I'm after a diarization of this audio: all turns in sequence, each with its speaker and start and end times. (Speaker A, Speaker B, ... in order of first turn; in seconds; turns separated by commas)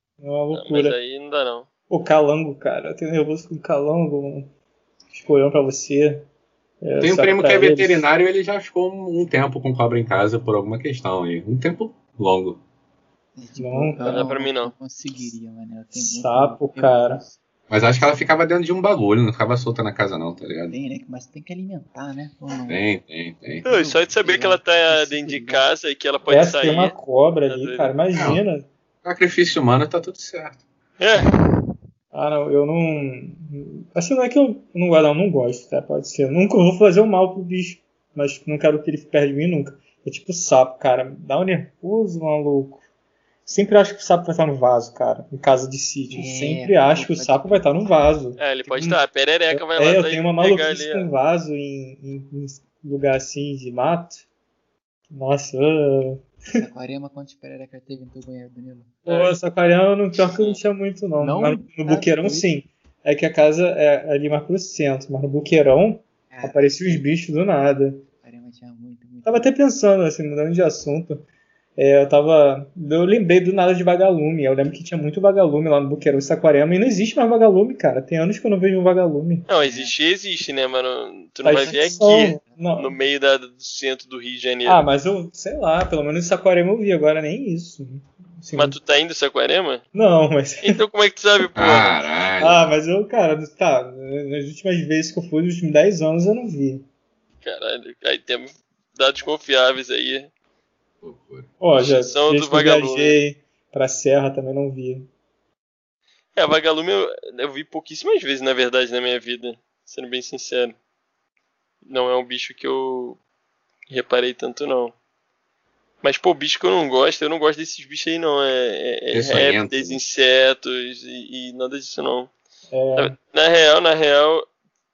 Speaker A: 0.2-1.0, Speaker B: 0.5-1.7, Speaker A: 1.9-4.5, Speaker A: 5.1-6.3, Speaker A: 6.8-8.1, Speaker C: 7.0-12.6, Speaker D: 13.4-17.4, Speaker A: 13.6-14.2, Speaker B: 14.0-14.7, Speaker A: 15.9-17.2, Speaker C: 17.7-20.8, Speaker D: 20.7-22.9, Speaker C: 22.7-23.6, Speaker D: 23.6-25.7, Speaker B: 23.6-26.9, Speaker A: 26.3-28.7, Speaker B: 27.5-27.9, Speaker C: 28.1-28.4, Speaker C: 29.0-30.6, Speaker B: 31.0-31.3, Speaker A: 32.1-42.8, Speaker A: 43.5-54.3, Speaker D: 46.1-48.1, Speaker B: 48.4-51.1, Speaker A: 55.1-56.2, Speaker D: 56.5-59.1, Speaker A: 59.1-68.0, Speaker B: 59.1-59.4, Speaker B: 60.2-60.6, Speaker D: 61.2-62.5, Speaker D: 66.3-67.0, Speaker D: 68.2-69.5, Speaker A: 69.2-71.2, Speaker A: 71.8-79.5, Speaker B: 79.5-84.8, Speaker D: 79.6-79.9, Speaker A: 81.4-82.9, Speaker D: 81.5-82.7, Speaker A: 84.7-88.8, Speaker B: 88.5-89.8, Speaker A: 89.9-90.8, Speaker B: 90.6-92.0, Speaker C: 91.6-92.8, Speaker A: 92.4-96.9, Speaker B: 97.4-100.3, Speaker C: 101.0-101.5, Speaker A: 101.6-105.1, Speaker B: 101.8-103.2, Speaker B: 106.4-110.8, Speaker B: 111.8-113.2, Speaker B: 113.9-115.0, Speaker B: 116.0-122.3, Speaker C: 119.1-120.0, Speaker A: 122.7-123.2, Speaker B: 123.0-124.5